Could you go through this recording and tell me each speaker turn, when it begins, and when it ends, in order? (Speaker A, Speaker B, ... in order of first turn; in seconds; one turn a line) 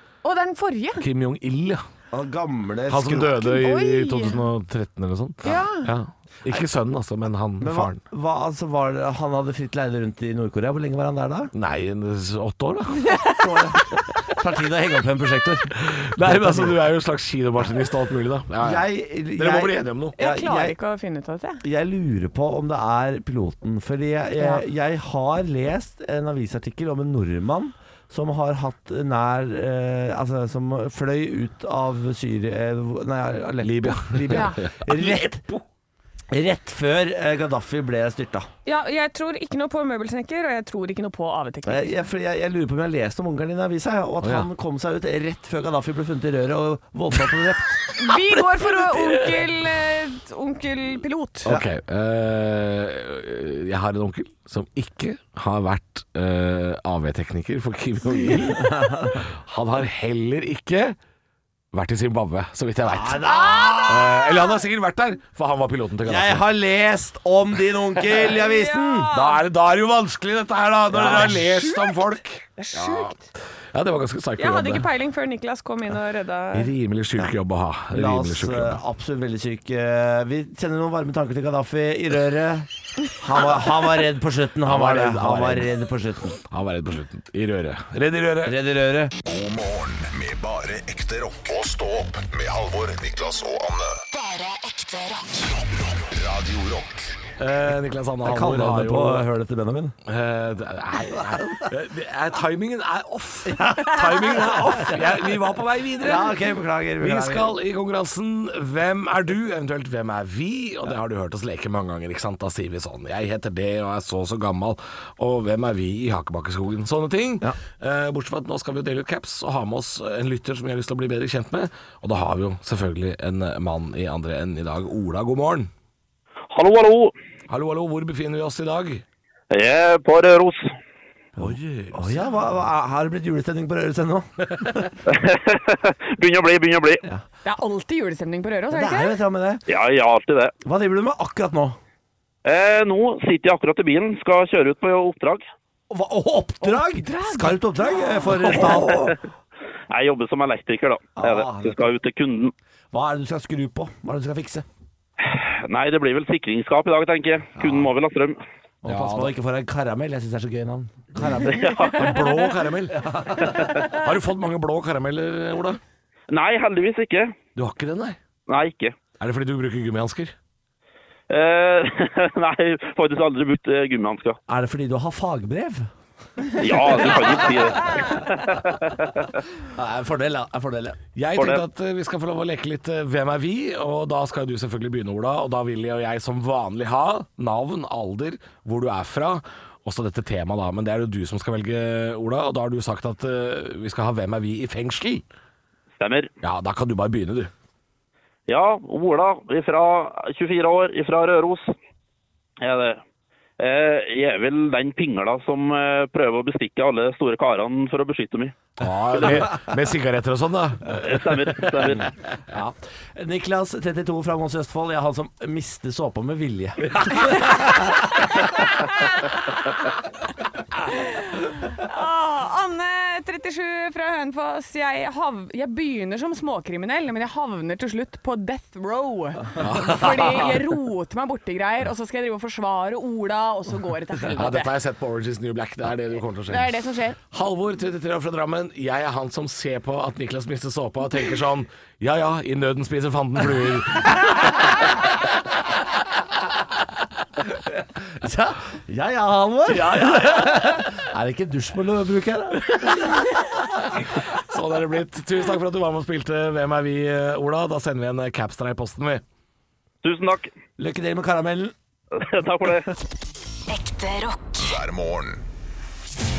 Speaker A: 0.2-1.0
Speaker B: 1.0-1.8
Speaker C: 2.1-3.4
Speaker B: 2.9-8.0
Speaker A: 3.4-4.4
Speaker A: 5.4-5.9
Speaker C: 7.6-11.5
Speaker B: 11.5-13.2
Speaker A: 13.1-13.3
Speaker C: 13.3-16.8
Speaker B: 15.7-20.2
Speaker C: 18.6-20.8
Speaker A: 20.2-21.6
Speaker C: 21.6-35.4
Speaker A: 24.4-24.6
Speaker B: 33.6-35.6
Speaker A: 34.3-34.6
Speaker C: 36.3-38.5
Speaker A: 38.6-42.0
Speaker C: 41.6-47.9
Speaker B: 44.2-44.5
Speaker A: 47.9-51.5
Speaker B: 48.7-49.4
Speaker B: 51.4-61.0
Speaker C: 58.5-59.2
Speaker B: 61.7-66.5
Speaker C: 62.9-64.2
Speaker A: 63.5-63.8
Speaker C: 66.0-69.2
Speaker A: 68.2-69.4
Speaker B: 69.1-73.2
Speaker C: 70.9-71.5
Speaker A: 71.1-72.0
Speaker A: 72.6-73.2
Speaker B: 73.7-74.9
Speaker A: 74.4-76.7
Speaker B: 76.5-78.8
Speaker C: 77.9-86.4
Speaker B: 84.6-85.7
Speaker B: 86.4-88.6
Speaker C: 88.4-89.1
Speaker D: 89.2-94.2
Speaker E: 94.2-95.3
Speaker D: 95.9-97.1
Speaker B: 97.4-99.2
Speaker C: 98.2-100.0
Speaker B: 100.0-106.4
Speaker C: 103.5-105.2
Speaker C: 106.0-107.5
Speaker B: 107.0-125.7
Speaker F: 126.5-127.1
Speaker B: 127.5-129.0
Speaker F: 129.5-130.7
Speaker C: 131.3-134.9
Speaker B: 131.4-132.3
Speaker F: 135.1-137.0
Speaker A: 137.4-139.2
Speaker C: 138.7-139.6
Speaker F: 139.7-140.5
Speaker C: 140.6-141.8
Speaker F: 142.4-145.4
Speaker C: 145.9-149.2
Speaker A: 146.6-148.5
Speaker F: 149.9-152.5
Speaker C: 151.2-151.8
Speaker C: 152.9-154.7
Speaker F: 155.2-158.4
Speaker C: 158.8-161.8
Speaker B: 158.8-159.3
Speaker F: 161.5-162.0
Speaker B: 161.9-163.1
Speaker C: 162.9-163.7
Speaker F: 163.4-163.9
Speaker B: 163.7-165.8
Speaker F: 166.3-167.3
Speaker B: 167.6-168.2
Speaker F: 168.5-168.9
Speaker B: 169.2-170.3
Speaker F: 171.3-174.4
Speaker C: 174.5-175.9
Speaker C: 176.4-177.5
Speaker F: 176.6-179.4
Speaker C: 179.7-181.0
Speaker B: 181.1-195.2
Speaker F: 181.3-181.6
Speaker F: 196.0-196.3
Speaker B: 196.4-197.5
Speaker F: 198.5-201.7
Speaker F: 202.6-203.0
Speaker F: 203.6-208.5
Speaker B: 208.8-211.6
Speaker C: 209.2-209.5
Speaker F: 211.0-212.1
Speaker B: 212.5-212.7
Speaker C: 213.1-218.0
Speaker A: 220.8-234.7
Speaker B: 229.6-230.6
Speaker B: 234.3-236.8
Speaker A: 236.5-237.2
Speaker B: 237.3-244.9
Speaker C: 248.0-253.3
Speaker B: 249.7-250.8
Speaker B: 253.9-259.2
Speaker F: 260.0-260.5
Speaker C: 260.8-261.7
Speaker F: 262.1-262.9
Speaker E: 263.7-264.5
Speaker D: 264.5-265.4